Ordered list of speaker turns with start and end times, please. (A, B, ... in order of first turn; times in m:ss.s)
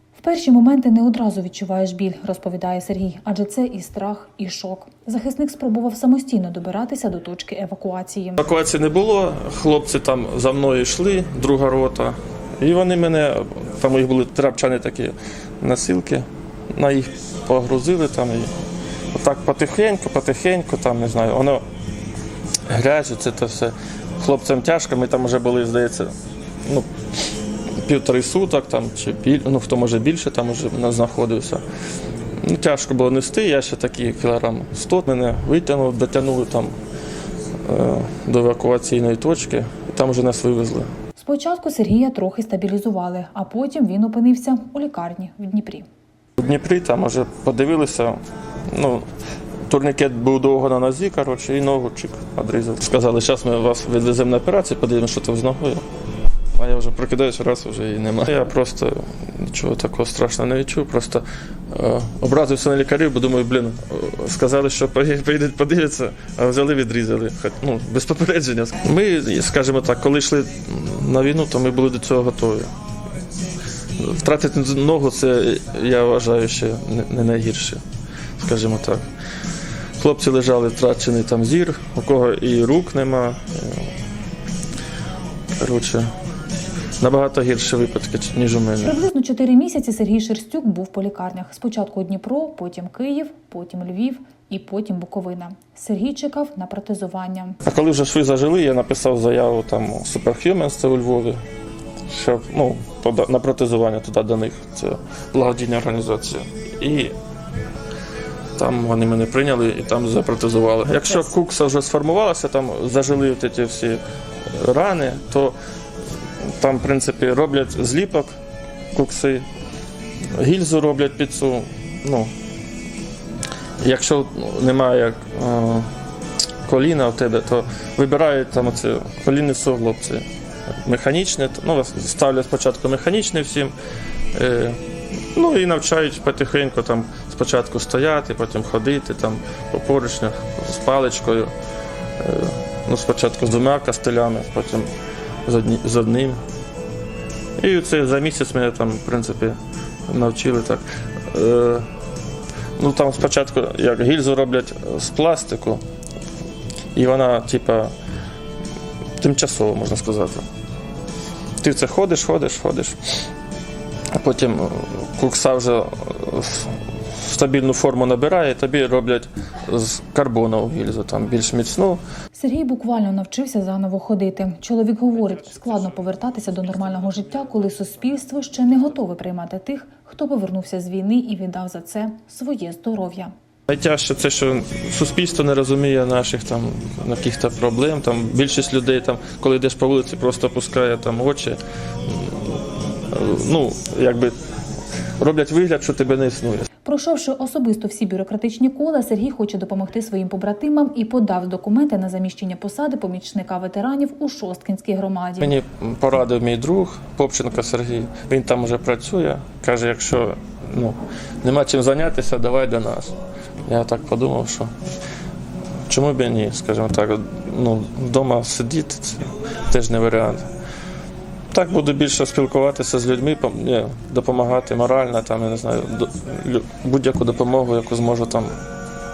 0:00.2-0:08.4 A
0:08.4-0:18.5 B
0:19.1-0:21.6 B
0:22.7-0:26.1 B
0:27.8-0:31.6 B
0:32.4-0:36.7 B
0:37.6-0:40.9 B
0:41.2-0:45.8 A
0:46.4-0:48.2 B
0:48.7-0:49.1 B
0:49.7-0:55.8 B
0:56.5-1:12.7 B
1:14.0-1:17.8 B
1:18.4-1:19.0 B
1:20.0-1:23.9 B
1:25.6-1:26.1 B
1:27.0-1:29.0 B
1:28.8-1:37.6 A
1:37.6-1:41.4 B
1:42.1-1:47.1 B
1:48.6-1:55.5 B
1:56.6-1:58.3 B
1:58.9-1:59.4 B
2:00.3-2:02.3 B
2:03.8-2:05.9 B
2:06.6-2:10.2 B
2:10.8-2:13.7 B
2:14.3-2:14.8 B
2:15.3-2:21.5 B
2:22.2-2:24.9 B
2:25.4-2:26.4 B
2:27.6-2:31.9 B
2:32.8-2:35.8 B
2:36.9-2:37.9 B
2:39.2-2:40.4 B
2:41.6-2:43.0 B
2:44.2-2:52.0 B
2:52.3-3:03.3 A
3:03.7-3:12.6 B
3:13.1-3:14.4 B
3:15.2-3:16.7 B
3:16.8-3:25.6 A
3:25.4-3:33.1 B
3:33.7-3:34.7 B
3:35.9-3:40.5 B
3:41.5-3:48.6 B